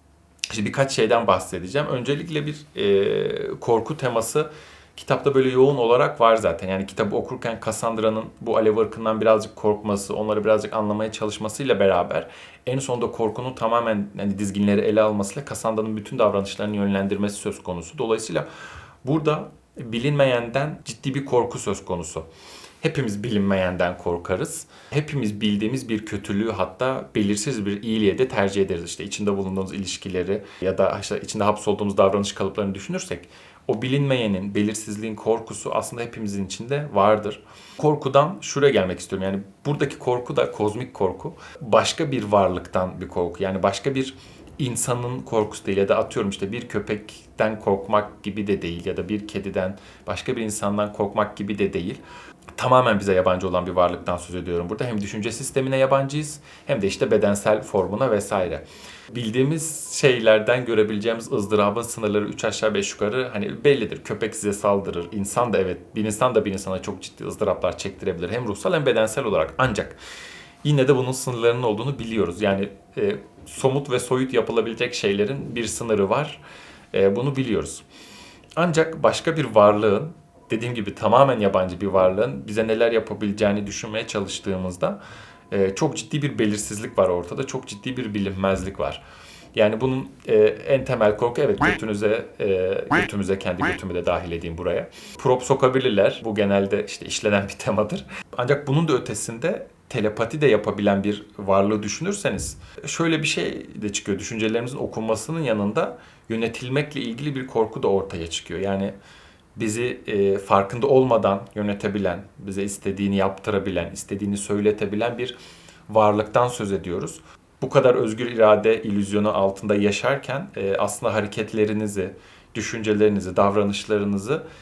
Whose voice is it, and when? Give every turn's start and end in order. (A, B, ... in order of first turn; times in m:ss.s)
0:00.5-0:18.5 A
0:19.0-0:22.3 A
0:22.8-0:52.0 A
0:52.6-1:10.0 A
1:10.6-1:16.4 A
1:16.9-1:17.8 A
1:18.6-1:25.0 A
1:25.5-1:29.0 A
1:29.5-1:48.9 A
1:49.5-1:55.4 A
1:55.9-2:04.4 A